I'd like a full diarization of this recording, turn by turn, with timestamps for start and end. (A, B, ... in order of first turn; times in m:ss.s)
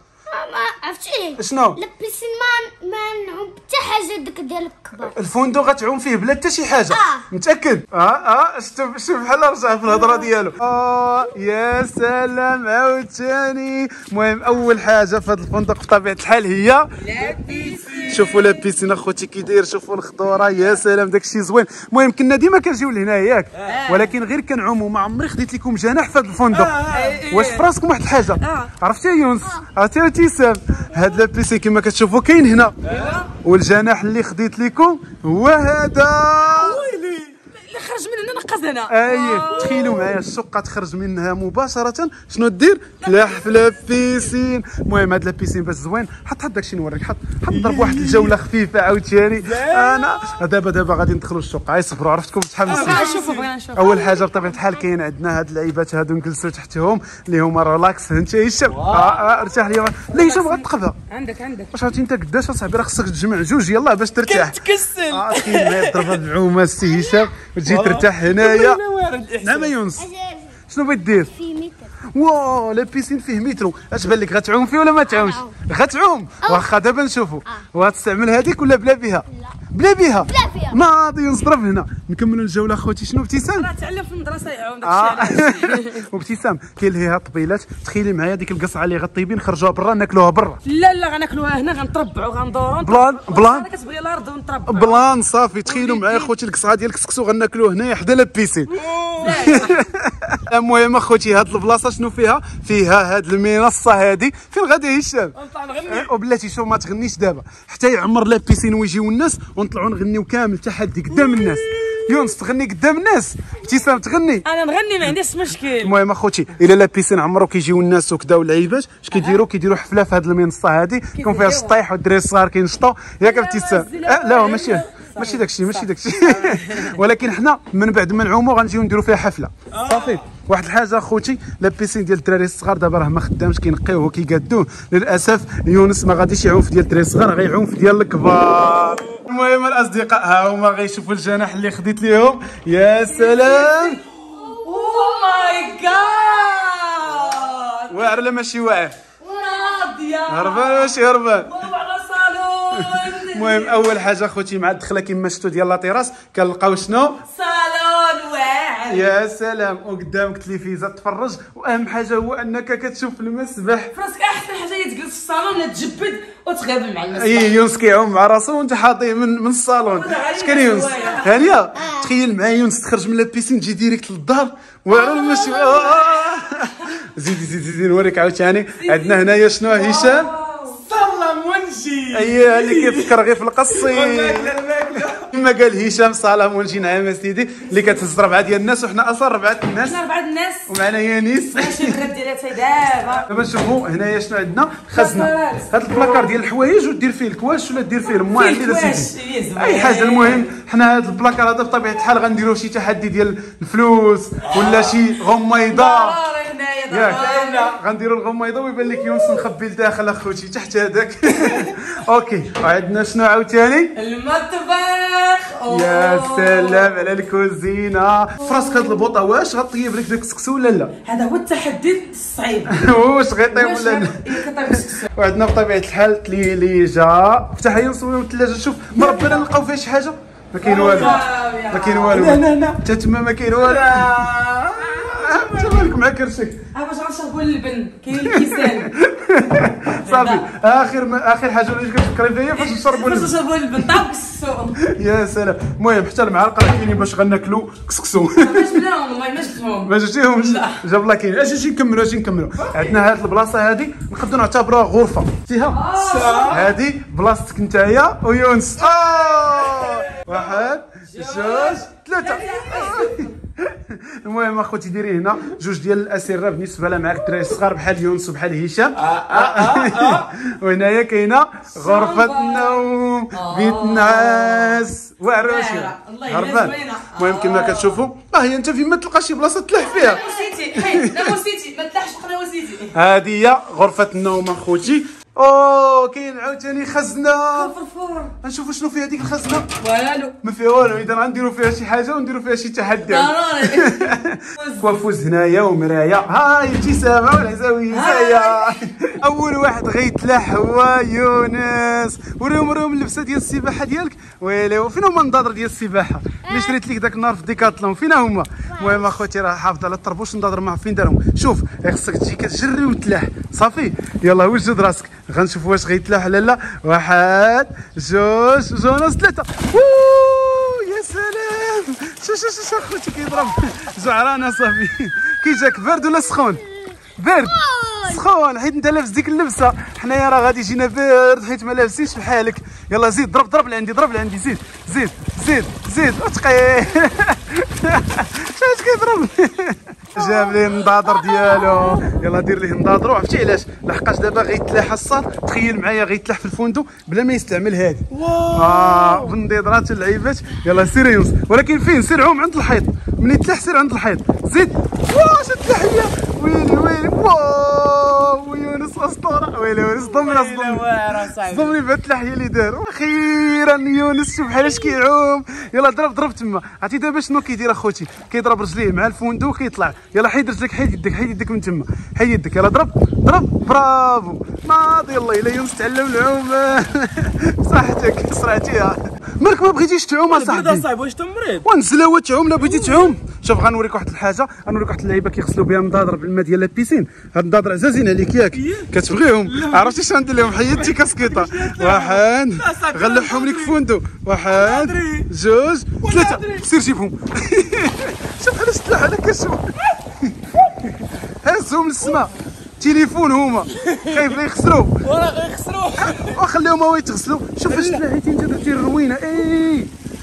0:00.3-0:05.1 A
0:01.4-0:01.8 B
0:05.0-0:17.3 B
0:06.9-0:07.2 A
0:17.0-0:18.6 C
0:17.5-0:18.2 D
0:17.8-0:32.8 B
0:23.6-0:24.2 C
0:26.5-0:27.2 D
0:26.9-0:27.7 C
0:28.4-0:28.7 C
0:32.8-0:33.2 D
0:32.9-0:33.3 C
0:33.4-0:36.8 B
0:36.4-0:36.9 C
0:36.7-0:37.4 D
0:37.5-0:40.1 C
0:38.9-1:01.0 B
0:39.5-0:39.9 D
0:43.0-0:44.1 C
0:47.5-0:48.4 D
0:49.4-0:50.4 D
0:52.7-0:54.8 C
0:52.7-0:53.5 D
0:58.7-0:59.2 D
0:59.2-1:01.7 C
1:01.7-1:08.8 B
1:04.2-1:06.2 D
1:06.9-1:07.3 A
1:07.6-1:09.8 D
1:09.4-1:10.1 B
1:10.0-1:10.5 A
1:10.7-1:11.4 B
1:11.3-1:11.9 A
1:12.1-1:23.7 B
1:15.1-1:15.5 A
1:20.3-1:20.8 A
1:23.5-1:26.0 C
1:24.8-1:30.6 B
1:30.6-1:35.0 C
1:32.8-1:33.7 B
1:34.7-1:54.5 B
1:35.6-1:36.3 C
1:38.8-1:39.8 C
1:38.8-1:39.4 D
1:45.4-1:46.1 C
1:51.1-1:52.4 C
1:54.4-1:55.9 C
1:55.0-2:24.0 B
1:59.1-1:59.4 C
2:01.2-2:01.8 C
2:03.2-2:07.0 C
2:09.7-2:10.2 D
2:23.0-2:28.2 C
2:27.9-2:29.0 B
2:29.2-2:33.9 C
2:30.3-2:31.6 B
2:32.7-2:37.2 B
2:37.3-2:39.1 C
2:38.9-2:43.9 B
2:43.9-2:47.7 C
2:47.1-3:00.3 B
2:49.9-2:51.4 C
2:54.9-2:56.9 C
2:58.8-3:00.8 C
3:00.8-3:05.3 D
3:02.1-3:04.6 B
3:05.2-3:10.0 B
3:09.8-3:10.7 C
3:10.7-3:12.0 B
3:11.6-3:13.3 C
3:13.2-3:26.2 B
3:14.9-3:16.3 C
3:18.1-3:20.5 C
3:24.6-3:25.0 D
3:25.7-3:27.8 C
3:26.9-3:33.9 B
3:29.0-3:29.5 C
3:31.3-3:31.7 C
3:34.0-3:36.9 C
3:35.7-3:40.9 B
3:38.4-3:39.0 C
3:41.0-3:42.9 C
3:42.7-3:54.0 B
3:43.5-3:45.1 C
3:49.0-3:49.5 C
3:50.6-3:51.2 D
3:50.6-3:52.2 C
3:52.1-3:52.8 D
3:53.6-3:54.8 D
3:54.2-3:56.0 C
3:54.8-3:56.6 B
3:56.7-3:58.9 C
3:58.2-4:04.0 B
3:59.8-4:00.5 C
4:02.6-4:04.8 C
4:04.8-4:08.8 B
4:08.3-4:10.8 C
4:09.8-4:15.8 B
4:15.7-4:16.6 C
4:15.9-4:16.8 D
4:16.4-4:40.2 B
4:19.8-4:20.6 D
4:21.1-4:23.3 C
4:29.0-4:30.3 D
4:31.8-4:38.0 C
4:39.8-4:42.9 C
4:40.8-4:41.3 B
4:42.9-4:47.7 B
4:47.5-4:48.3 C
4:48.4-4:49.7 B
4:49.8-4:50.3 C
4:50.4-5:26.6 B
4:53.1-4:54.8 C
4:57.9-4:58.8 C
5:06.5-5:06.8 A
5:08.7-5:09.0 A
5:27.2-6:20.9 B
5:27.7-5:28.0 A
5:40.2-5:42.1 C
5:48.1-5:49.3 D
6:00.0-6:01.8 C
6:20.3-6:21.6 D
6:21.6-6:45.0 B
6:22.6-6:23.2 D
6:28.5-6:28.9 D
6:29.4-6:33.8 D
6:34.5-6:35.3 D
6:36.0-6:36.7 D
6:42.0-6:42.3 D
6:43.8-6:44.4 D
6:45.0-6:46.4 D
6:46.0-6:49.9 B
6:47.7-6:48.0 D